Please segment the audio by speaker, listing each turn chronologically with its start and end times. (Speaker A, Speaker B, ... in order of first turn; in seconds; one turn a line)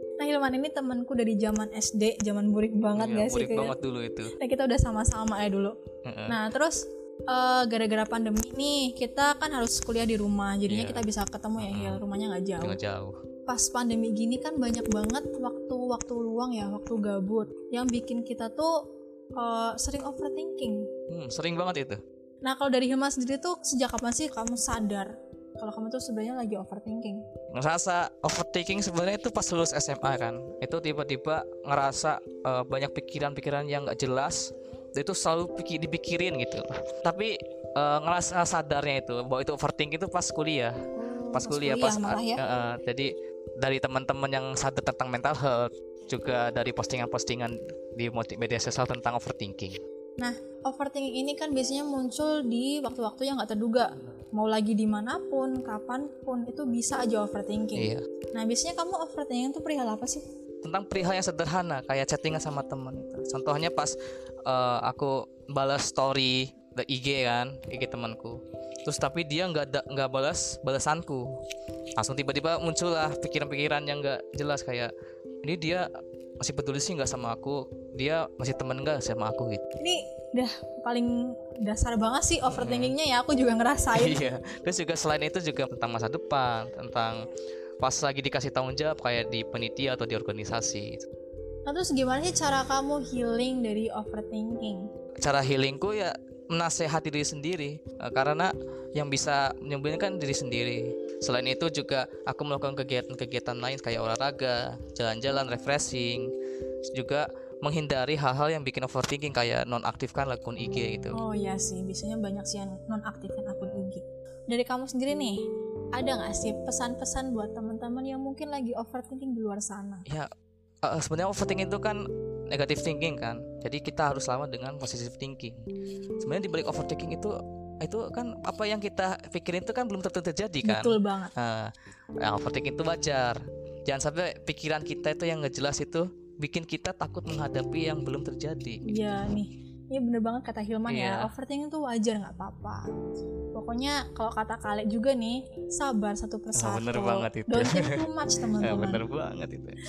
Speaker A: 0.2-3.7
Speaker B: 3.0-4.3
Speaker A: 4.4-5.8
Speaker B: 6.1-6.4
Speaker A: 6.3-6.8
Speaker A: 7.3-12.8
Speaker B: 10.7-11.0
Speaker B: 11.6-12.0
Speaker B: 12.6-13.2
Speaker A: 13.5-18.7
Speaker A: 19.4-20.8
Speaker B: 21.1-22.0
Speaker A: 22.4-27.2
Speaker B: 27.6-40.8
Speaker A: 41.0-42.4
Speaker B: 41.3-43.1
Speaker B: 43.6-49.8
Speaker A: 50.2-60.2
Speaker B: 57.8-58.0
Speaker B: 60.6-63.9
Speaker B: 64.5-71.3
Speaker B: 72.0-74.9
Speaker B: 75.4-75.8
Speaker B: 76.4-79.6
Speaker A: 79.8-81.1
Speaker A: 81.7-84.2
Speaker B: 82.5-83.0
Speaker B: 84.0-87.2
Speaker B: 87.8-91.0
Speaker A: 91.7-94.8
Speaker B: 95.2-106.3
Speaker B: 106.9-111.2
Speaker A: 111.2-115.4
Speaker A: 116.0-120.0
Speaker B: 120.8-122.0
Speaker B: 122.5-125.6
Speaker B: 126.2-131.7
Speaker A: 130.6-131.3
Speaker B: 132.2-138.8
Speaker A: 138.9-142.8
Speaker B: 140.9-141.2
Speaker A: 143.6-149.0
Speaker B: 146.6-148.0
Speaker B: 148.6-149.8